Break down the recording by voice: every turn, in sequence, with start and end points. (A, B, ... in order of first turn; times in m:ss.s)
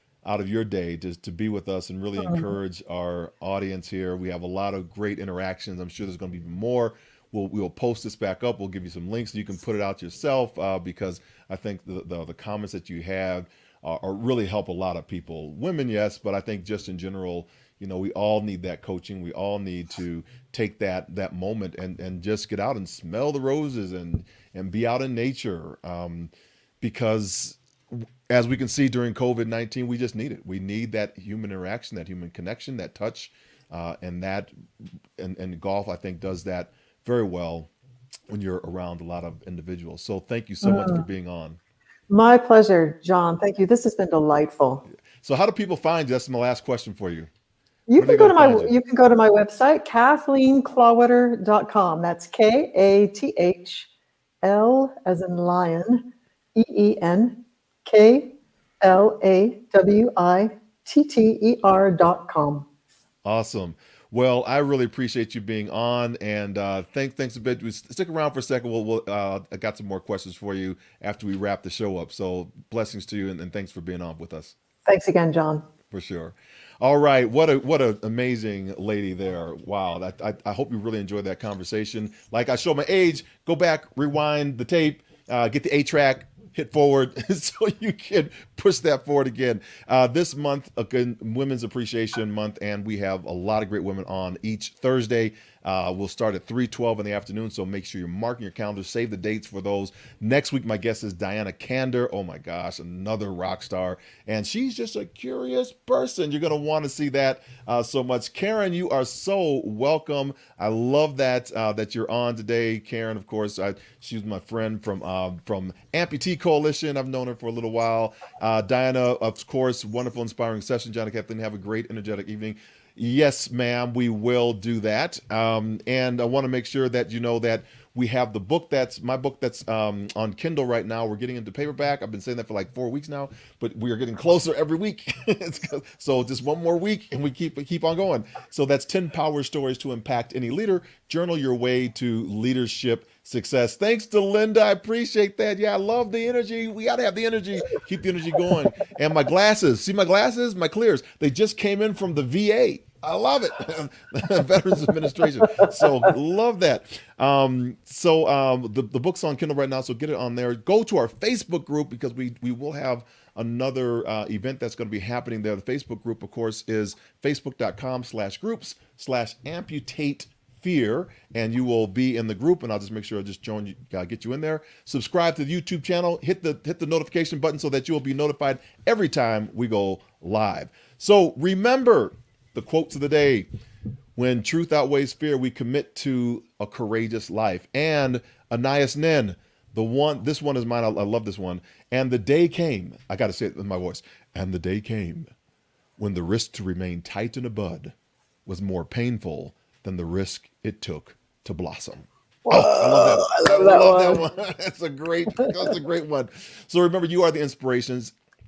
0:00.2-0:34.5 A
0:02.2-0:02.5 B
0:35.2-0:37.7 A
0:38.3-0:41.6 A
0:40.6-0:41.0 B
0:42.1-0:44.8 B
0:45.2-0:47.3 A
0:47.9-0:53.9 B
0:48.0-0:48.7 A
0:54.4-1:02.6 B
1:03.2-1:14.5 A
1:14.8-1:15.6 B
1:15.9-3:03.5 A
3:04.2-3:15.3 A
3:16.0-3:17.9 A
3:18.4-3:28.1 A
3:22.5-3:24.2 B